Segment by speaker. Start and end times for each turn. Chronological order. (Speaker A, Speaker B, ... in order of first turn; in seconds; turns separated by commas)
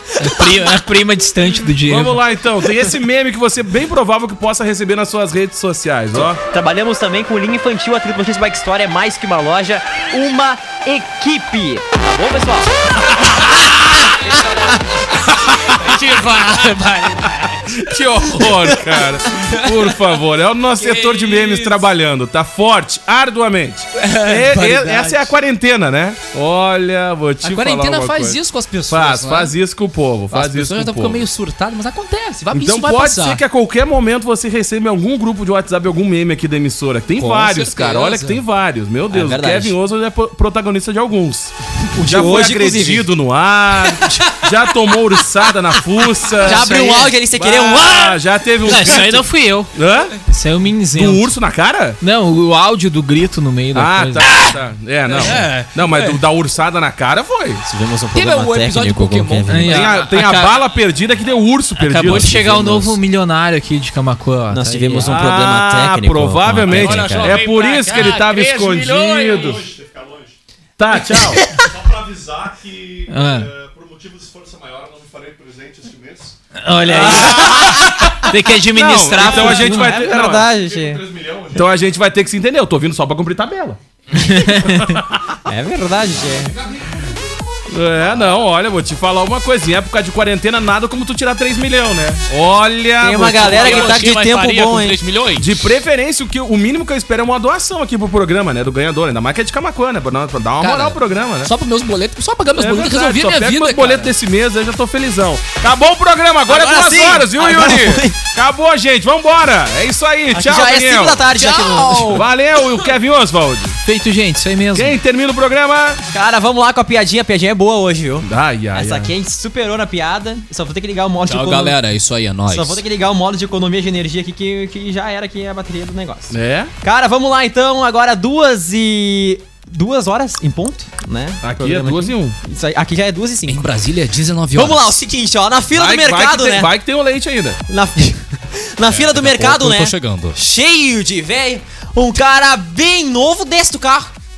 Speaker A: 0.2-2.2, Speaker B: 1.9-6.4, Speaker C: 6.1-13.5, Speaker D: 14.2-14.8, Speaker B: 15.2-15.8, Speaker D: 15.6-18.6, Speaker B: 17.6-31.3, Speaker D: 20.8-21.8, Speaker D: 23.9-25.3, Speaker D: 27.4-29.5, Speaker D: 30.3-33.4, Speaker B: 32.5-50.2, Speaker D: 37.1-38.4, Speaker C: 39.1-39.7, Speaker C: 41.9-43.1, Speaker C: 46.4-48.2, Speaker D: 46.5-46.8, Speaker D: 48.6-49.3, Speaker A: 48.6-49.7, Speaker A: 50.3-51.3, Speaker B: 50.9-52.0, Speaker A: 52.0-54.3, Speaker B: 53.7-57.6, Speaker D: 54.2-54.6, Speaker D: 55.1-56.2, Speaker C: 57.6-59.7, Speaker D: 58.1-59.9, Speaker A: 59.5-60.5, Speaker B: 59.6-63.0, Speaker A: 61.8-65.2, Speaker C: 64.5-67.4, Speaker B: 65.0-69.7, Speaker D: 66.6-69.6, Speaker E: 69.3-70.3, Speaker B: 70.8-71.5, Speaker E: 71.8-76.3, Speaker A: 73.1-73.5, Speaker A: 76.6-80.1, Speaker B: 76.9-80.6, Speaker C: 77.0-78.1, Speaker C: 79.2-81.0, Speaker E: 80.6-81.5, Speaker B: 81.5-83.8, Speaker A: 84.2-85.0, Speaker B: 84.5-85.4, Speaker C: 85.5-86.5, Speaker B: 87.7-94.0, Speaker C: 93.0-95.0, Speaker D: 93.3-95.6, Speaker B: 95.3-101.5, Speaker D: 100.6-104.1, Speaker B: 102.5-111.3, Speaker C: 106.5-108.2, Speaker C: 110.3-112.3, Speaker D: 111.4-112.0, Speaker B: 112.0-113.8, Speaker A: 113.8-115.0, Speaker B: 114.7-116.0, Speaker C: 116.1-121.8, Speaker B: 118.2-119.1, Speaker D: 121.2-122.8, Speaker C: 122.5-133.6, Speaker B: 126.3-126.7, Speaker B: 131.4-132.3, Speaker D: 133.4-134.9, Speaker C: 134.5-136.7, Speaker B: 135.7-137.6, Speaker C: 137.7-144.1, Speaker D: 138.8-140.4